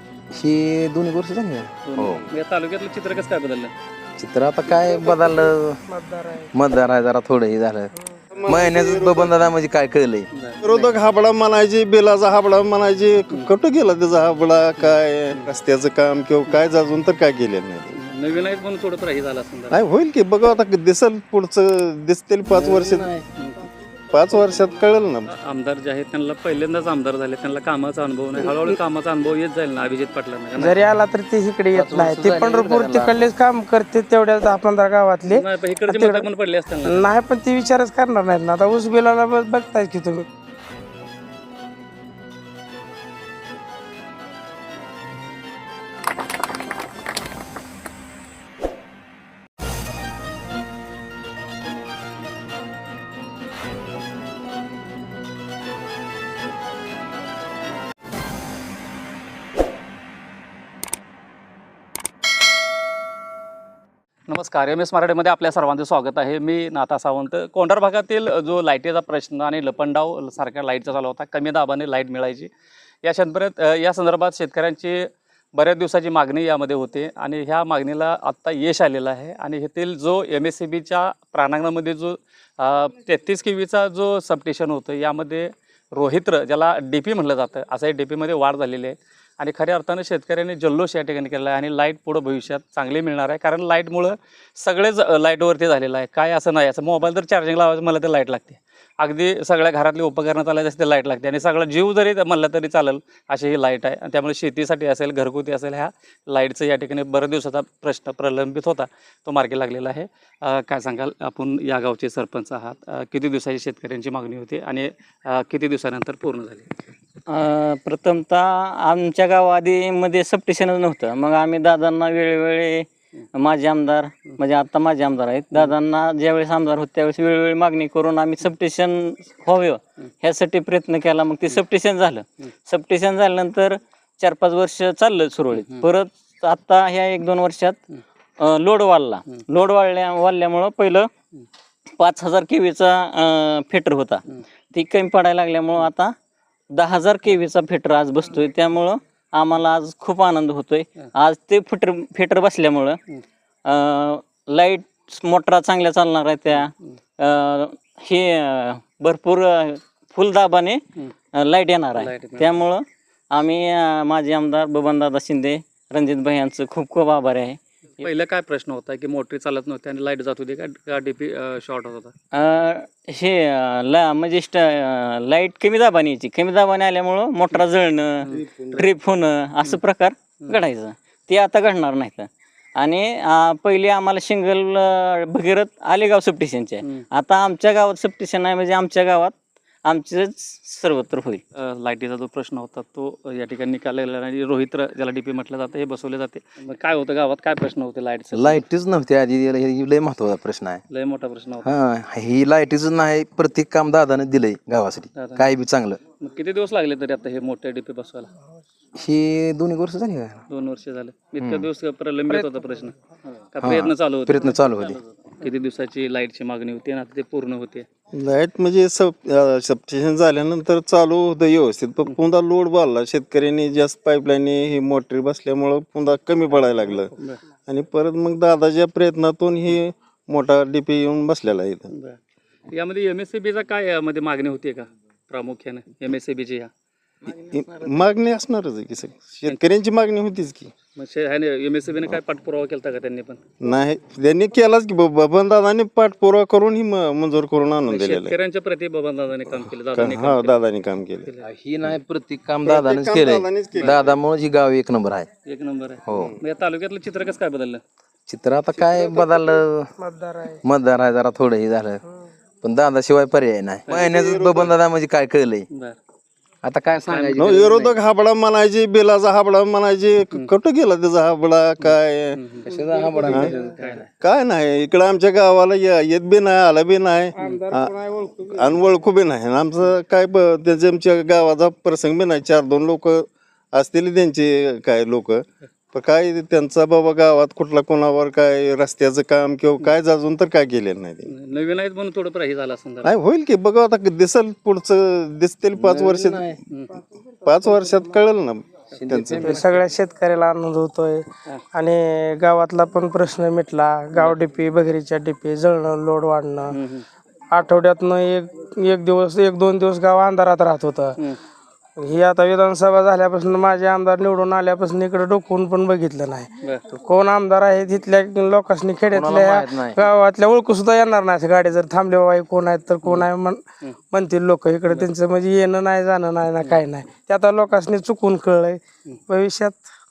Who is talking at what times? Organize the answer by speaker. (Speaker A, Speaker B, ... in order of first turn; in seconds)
Speaker A: 0.3-2.2, 4.2-5.8, 6.5-7.9, 8.5-10.3, 22.5-23.2, 31.7-33.3, 178.3-178.8, 198.3-200.8, 201.6-206.0, 208.9-210.4, 211.4-211.7, 213.6-215.0, 251.4-255.3, 256.1-256.3, 258.3-259.9, 260.6-262.0, 262.6-265.6, 266.6-267.9, 272.6-274.1, 295.8-296.6, 298.9-299.7, 319.1-320.1
Speaker B: 1.9-3.7, 10.3-11.0, 14.8-15.5, 17.9-19.8, 23.4-23.7, 25.3-30.8, 35.3-37.0, 64.3-72.5, 73.0-116.7, 135.5-135.8, 162.0-162.6, 168.0-172.1, 191.6-198.6, 200.9-201.7, 205.2-205.4, 206.2-208.3, 210.5-217.8, 231.9-232.2, 232.7-236.7, 240.9-243.4, 247.9-250.6, 255.4-257.8, 263.9-264.1, 265.7-265.9, 267.1-267.8, 271.8-272.7, 291.3-293.1, 296.7-297.0, 306.7-307.0
Speaker C: 4.7-6.5, 30.6-36.3, 36.8-40.3, 258.9-259.4, 260.0-260.6, 272.7-273.9, 277.4-278.8, 299.4-306.7, 307.5-311.2, 312.0-329.9
Speaker D: 8.3-9.3, 10.6-18.0, 19.7-23.1, 24.1-25.3, 218.1-227.1, 227.7-231.9, 237.3-240.7, 243.6-248.3, 249.9-251.3, 252.6-254.1, 256.1-256.4, 263.9-264.7, 267.4-272.4, 274.2-291.3, 293.0-296.4, 297.4-299.5
Speaker E: 117.3-137.8, 138.4-141.1, 142.0-144.2, 144.7-146.1, 146.7-153.0, 153.6-160.8, 161.3-167.6, 172.3-191.4